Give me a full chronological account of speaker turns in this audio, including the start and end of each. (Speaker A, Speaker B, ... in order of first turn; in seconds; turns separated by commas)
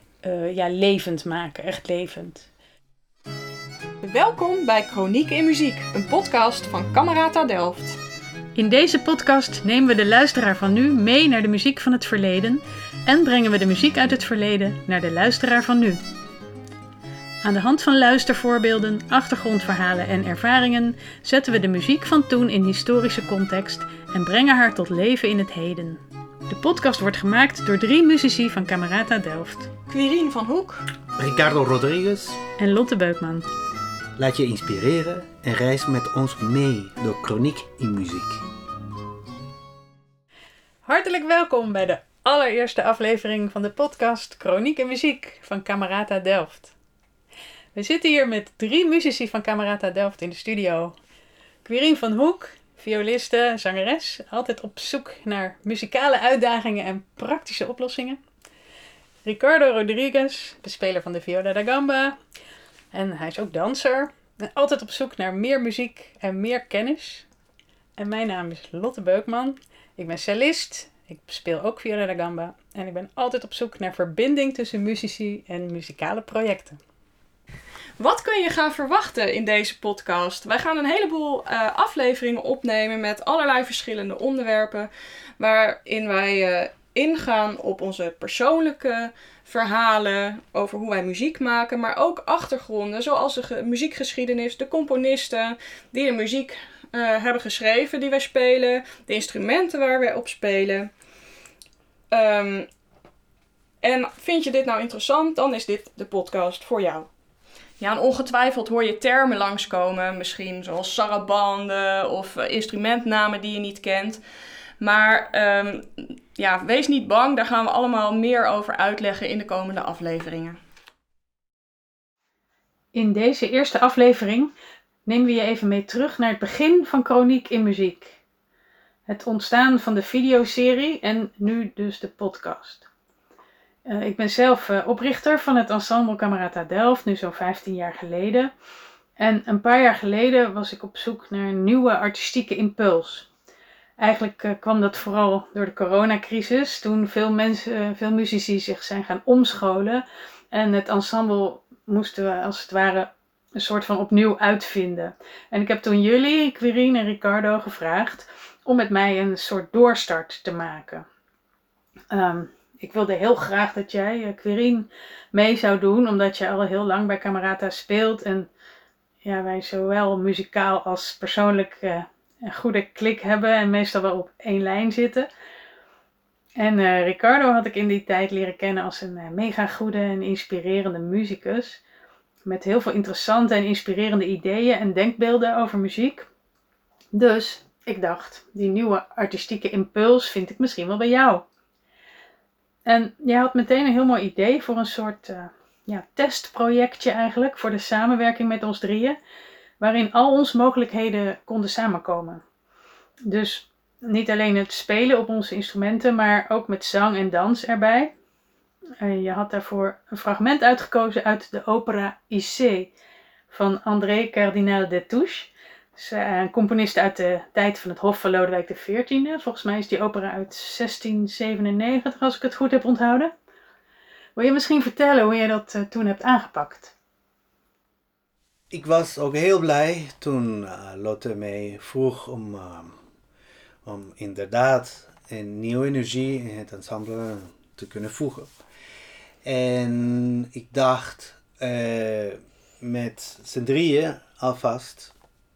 Speaker A: 0.2-2.5, Speaker B: 4.0-8.0, Speaker A: 8.6-16.0, Speaker A: 17.4-29.7, Speaker B: 29.9-30.9, Speaker C: 31.2-32.4, Speaker A: 32.6-33.5, Speaker C: 34.2-38.4, Speaker A: 40.9-46.7, Speaker A: 47.7-51.0, Speaker A: 51.6-58.2, Speaker A: 59.2-62.2, Speaker A: 62.9-67.3, Speaker A: 68.0-76.8, Speaker B: 78.0-100.9, Speaker B: 102.1-102.7, Speaker B: 103.8-107.1, Speaker B: 107.8-114.2, Speaker B: 114.8-120.6, Speaker A: 122.9-124.5, Speaker A: 125.1-128.2, Speaker A: 129.1-132.9, Speaker A: 133.9-138.5, Speaker A: 139.2-143.3, Speaker A: 144.0-161.1, Speaker A: 162.1-168.5, Speaker A: 169.2-175.3, Speaker A: 176.6-181.8, Speaker A: 182.5-186.3, Speaker A: 187.1-191.4, Speaker A: 192.9-199.2, Speaker A: 199.8-202.4, Speaker A: 203.3-208.1, Speaker A: 209.0-212.9, Speaker A: 213.5-223.3, Speaker A: 224.4-226.9, Speaker C: 228.7-233.0, Speaker C: 233.8-238.5, Speaker C: 239.4-245.1